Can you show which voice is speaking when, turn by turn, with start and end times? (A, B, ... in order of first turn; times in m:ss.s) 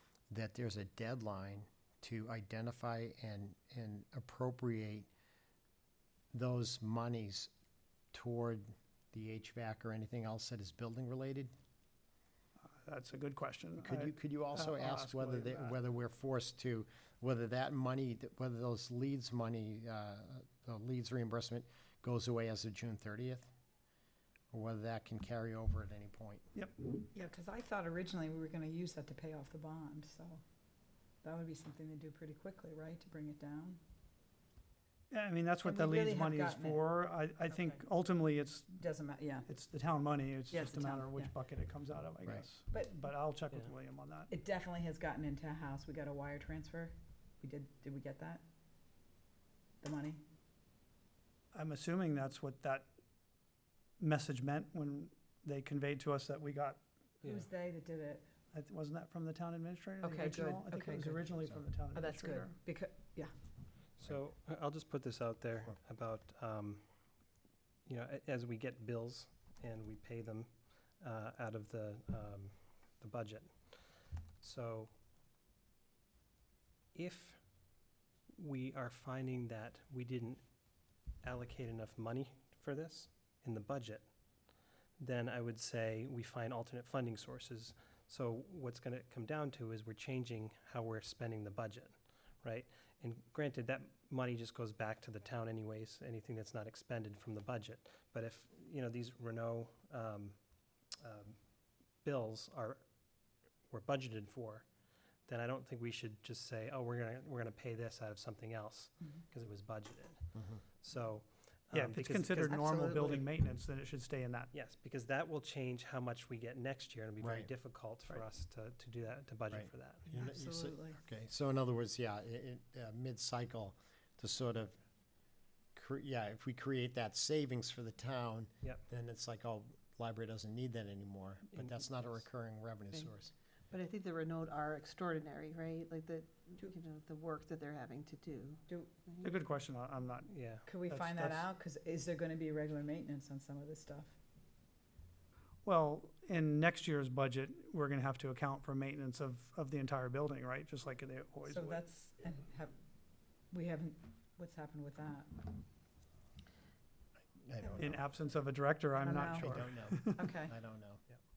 0:00.3-0:05.1 A
0:06.3-0:07.5 A
0:08.1-0:11.5 A
0:12.8-0:15.8 B
0:13.8-0:23.5 A
0:24.5-0:26.4 A
0:26.5-0:27.0 B
0:27.0-0:30.4 C
0:31.2-0:33.8 C
0:35.1-0:38.8 B
0:35.6-0:36.9 C
0:37.5-0:37.8 C
0:38.8-0:39.5 C
0:39.5-0:44.3 B
0:40.5-0:41.3 C
0:42.7-0:43.0 C
0:44.3-0:48.4 C
0:49.8-0:50.2 C
0:51.5-0:52.9 B
0:54.0-0:56.8 B
0:57.2-0:57.5 D
0:57.2-0:58.2 C
0:58.5-1:02.5 B
1:00.0-1:01.3 C
1:01.9-1:03.3 C
1:04.0-1:06.8 D
1:07.8-1:14.9 D
1:16.9-1:17.4 D
1:18.4-1:20.4 D
1:21.2-1:24.1 D
1:25.0-1:40.4 D
1:40.9-1:41.3 D
1:42.0-1:42.8 D
1:43.7-1:44.6 D
1:45.3-1:52.9 D
1:50.3-1:50.6 A
1:51.7-1:54.5 B
1:52.5-1:53.2 C
1:54.5-2:00.0 D
1:57.2-1:57.5 A
1:59.5-2:04.8 A
2:00.1-2:01.0 C
2:05.7-2:13.3 A
2:11.5-2:12.2 D
2:13.7-2:19.3 E
2:19.2-2:21.4 B
2:20.3-2:20.7 D
2:20.6-2:24.1 C
2:25.6-2:31.8 B
2:31.5-2:32.7 C
2:33.5-2:35.5 C
2:37.4-2:38.0 A
2:37.8-2:40.3 B
2:39.0-2:39.4 C
2:39.3-2:41.0 A
2:40.2-2:40.5 C